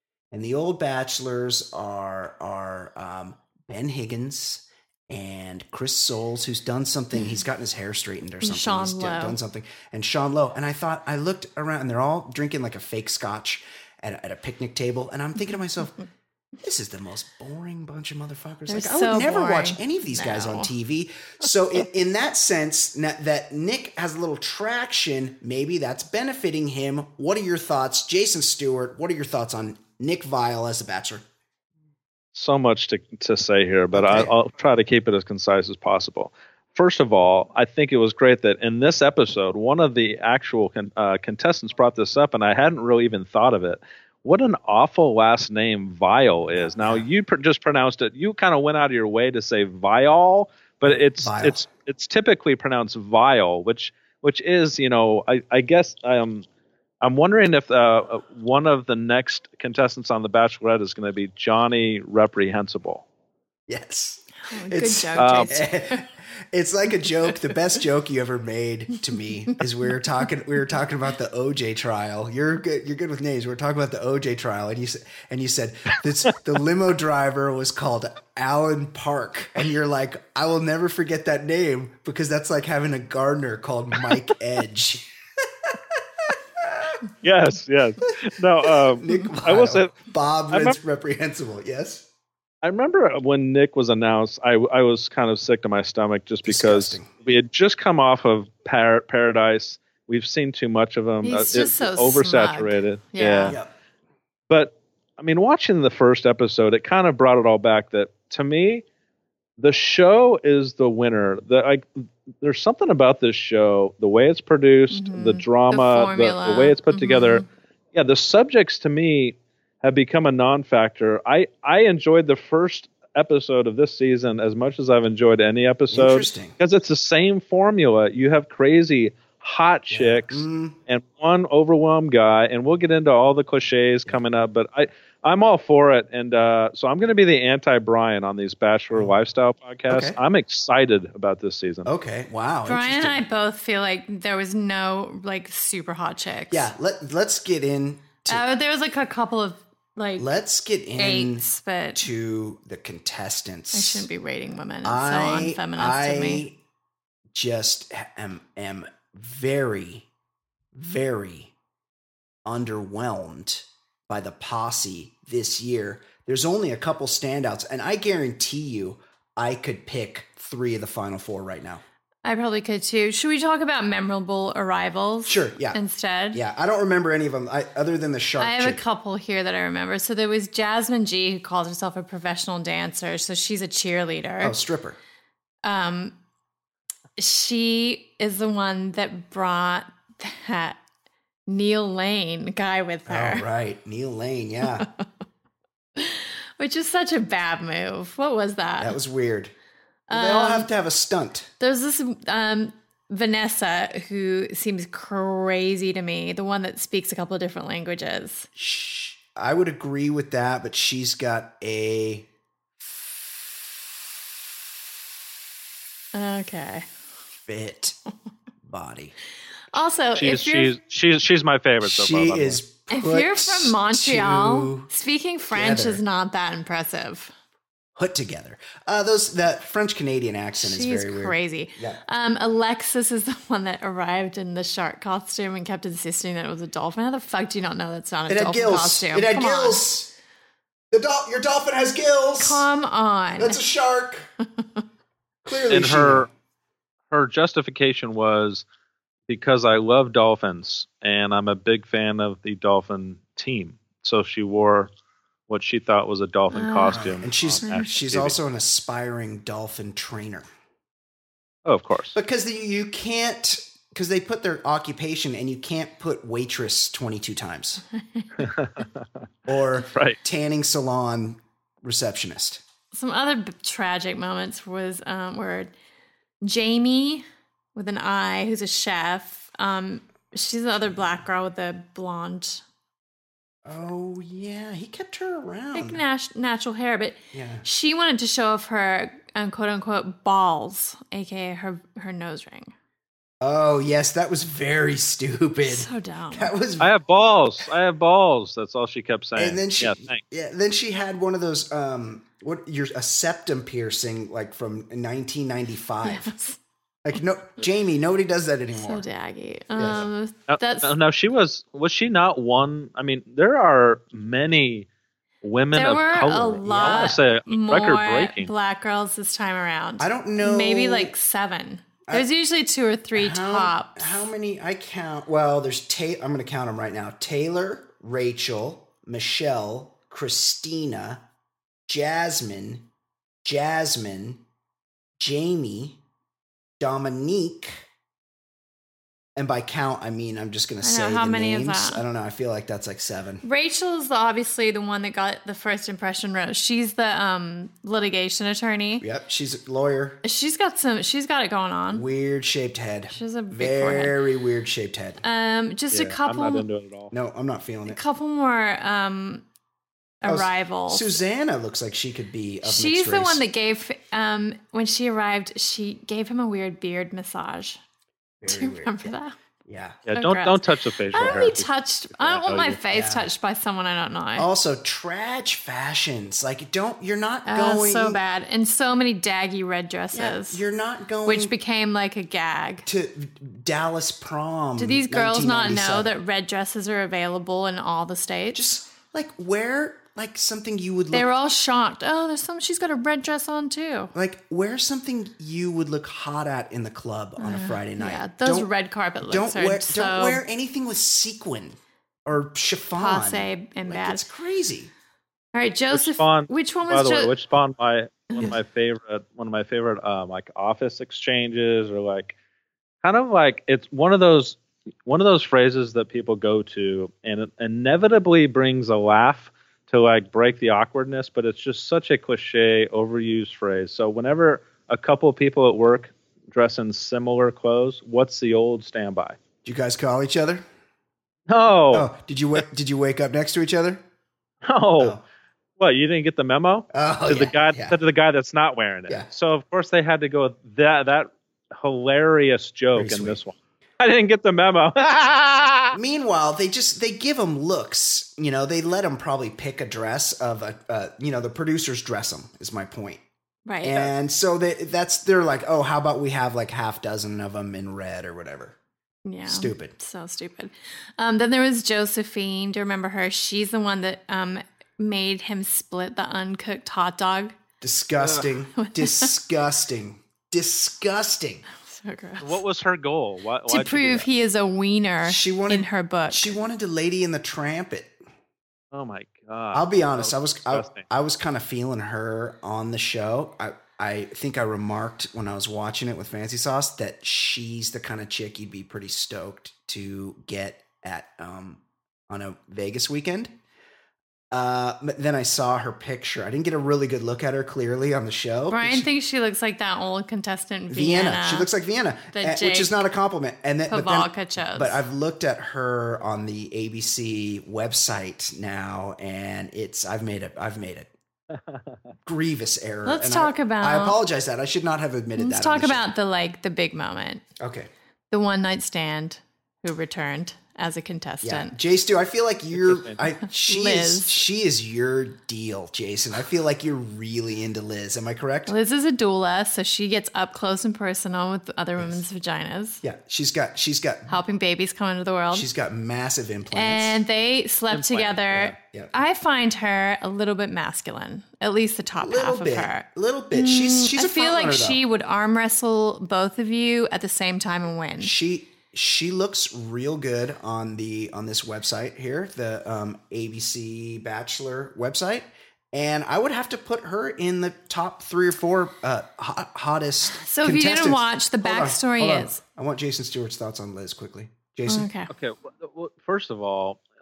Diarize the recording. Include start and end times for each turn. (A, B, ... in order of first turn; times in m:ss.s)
0:00.3-0:16.0 A
0:08.4-0:09.4 B
0:16.6-0:31.2 A
0:18.7-0:20.7 B
0:32.3-0:56.4 C
0:33.9-0:34.3 A
0:46.6-0:47.1 A
0:50.8-0:51.7 A
0:57.0-1:03.0 C
1:03.7-1:27.0 A
1:04.5-1:06.0 B
1:05.2-1:05.6 C
1:27.2-1:29.9 C
1:28.6-1:32.0 A
1:30.5-1:30.8 C
1:32.6-1:43.6 C
1:36.4-1:37.1 A
1:41.2-1:43.6 B
1:44.5-1:48.8 C
1:49.6-1:51.9 C
1:52.4-2:21.9 C
1:54.9-1:57.4 B
2:05.9-2:06.6 A
2:09.9-2:10.8 A
2:19.9-2:20.2 A
2:21.8-2:23.2 A
2:22.6-2:26.7 B
2:26.5-2:28.4 A
2:28.3-2:30.3 B
2:30.2-2:34.1 A
2:31.0-2:32.1 B
2:33.7-2:36.4 B
2:34.8-2:36.6 A
2:37.3-2:40.1 A
2:40.7-2:41.5 A
2:42.4-2:51.8 A
2:52.2-2:56.4 B
2:55.2-2:55.8 A
2:56.3-2:58.8 A
2:58.4-3:04.6 B
3:04.4-3:05.0 A
3:05.6-3:06.1 B
3:07.2-3:10.8 B
3:11.5-3:13.4 B
3:13.1-3:14.9 A
3:16.0-3:18.9 B
3:18.8-3:19.5 A
3:20.1-3:20.7 B
3:20.1-3:21.5 A
3:21.6-3:28.5 B
3:28.6-3:32.3 A
3:36.1-3:36.9 B
3:37.4-3:38.0 A
3:38.6-3:39.1 A
3:39.7-3:40.8 B
3:40.2-3:42.6 C
3:41.8-3:44.9 A
3:42.9-3:47.3 B
3:45.5-3:46.0 A
3:48.0-3:52.0 A
3:50.6-3:59.8 B
3:58.3-4:00.1 A
4:00.9-4:02.6 A
4:02.4-4:03.6 B
4:03.4-4:04.3 A
4:05.4-4:06.3 A
4:05.7-4:06.3 C
4:07.1-4:08.6 C
4:09.3-4:14.9 C
4:15.5-4:18.4 C
4:16.5-4:17.0 B
4:16.9-4:20.5 A
4:17.6-4:17.9 B
4:21.6-4:22.2 C
4:22.1-4:27.8 A
4:28.4-4:29.0 C
4:29.5-4:32.6 A
4:29.9-4:30.2 C
4:32.9-4:35.7 B
4:36.4-4:42.6 B
4:43.6-4:46.0 A
4:45.7-4:52.7 B
4:47.3-4:47.6 A
4:53.4-4:56.9 A
4:55.6-4:56.5 B
4:56.8-5:00.2 C
4:59.4-5:06.3 A
5:06.0-5:06.6 B
5:07.0-5:09.0 A
5:08.7-5:10.9 B
5:09.8-5:10.1 A
5:10.5-5:14.9 C
5:15.4-5:18.5 C
5:15.7-5:24.3 B
5:16.7-5:17.2 A
5:20.0-5:21.1 A
5:23.1-5:31.2 A
5:31.9-5:32.8 A
5:33.4-5:34.4 A
5:35.2-5:36.0 A
5:36.8-5:37.8 A
5:39.4-5:43.4 A
5:40.8-5:42.0 B
5:43.4-5:49.0 B
5:49.0-5:50.2 A
5:50.2-5:52.0 B
5:51.9-5:55.2 A
5:53.1-5:54.2 B
5:55.2-5:56.6 B
5:55.9-5:57.1 C
5:57.1-5:58.0 A
5:57.9-5:59.4 B
6:00.2-6:01.2 B
6:00.2-6:03.4 A
6:02.6-6:07.8 B
6:08.4-6:09.1 A
6:08.5-6:09.3 B
6:09.6-6:10.0 A
6:10.1-6:12.8 C
6:10.1-6:14.5 B
6:11.1-6:11.5 A
6:12.9-6:13.3 A
6:14.4-6:18.2 A
6:17.4-6:20.6 B
6:20.1-6:21.5 A
6:21.2-6:22.9 B
6:22.8-6:26.1 A
6:24.8-6:28.6 B
6:28.5-6:31.2 A
6:31.1-6:34.1 B
6:34.1-6:38.7 A
6:37.4-6:40.4 B
6:39.2-6:44.9 A
6:43.0-6:44.2 B
6:45.5-6:47.3 B
6:45.9-6:52.4 C
6:48.3-6:48.6 B
6:53.0-7:09.4 C
7:09.6-7:10.6 A
7:11.5-7:12.1 C
7:11.9-7:14.0 A
7:14.6-7:15.2 C
7:15.8-7:26.0 C
7:16.9-7:18.0 A
7:22.9-7:23.4 A
7:25.9-7:33.2 A
7:33.6-7:34.1 B
7:33.8-7:38.8 A
7:39.2-7:47.5 B
7:39.4-7:39.9 A
7:47.8-7:51.6 A
7:48.8-7:49.3 B
7:51.8-7:52.6 B
7:52.4-7:54.3 C
7:53.7-7:56.5 B
7:55.2-7:58.2 A
7:58.9-8:01.0 C
7:59.7-8:13.5 A
8:14.5-8:19.1 A
8:18.7-8:21.7 B
8:20.9-8:31.1 A
8:22.3-8:23.0 B
8:23.9-8:25.0 B
8:31.5-8:32.0 C
8:32.2-8:36.1 A
8:33.0-8:34.2 B
8:35.4-8:37.4 B
8:37.6-8:37.9 A
8:38.3-8:41.7 B
8:41.4-8:48.7 A
8:42.8-8:43.2 C
8:43.6-8:44.4 B
8:48.7-8:53.0 B
8:52.0-8:52.2 A
8:53.0-8:54.4 A
8:54.3-8:55.7 B
8:55.5-8:57.2 A
8:56.7-9:08.3 B
8:57.9-8:58.8 C
9:02.2-9:05.0 A
9:08.2-9:25.1 A
9:20.4-9:22.6 B
9:24.9-9:25.3 B
9:25.3-9:27.0 C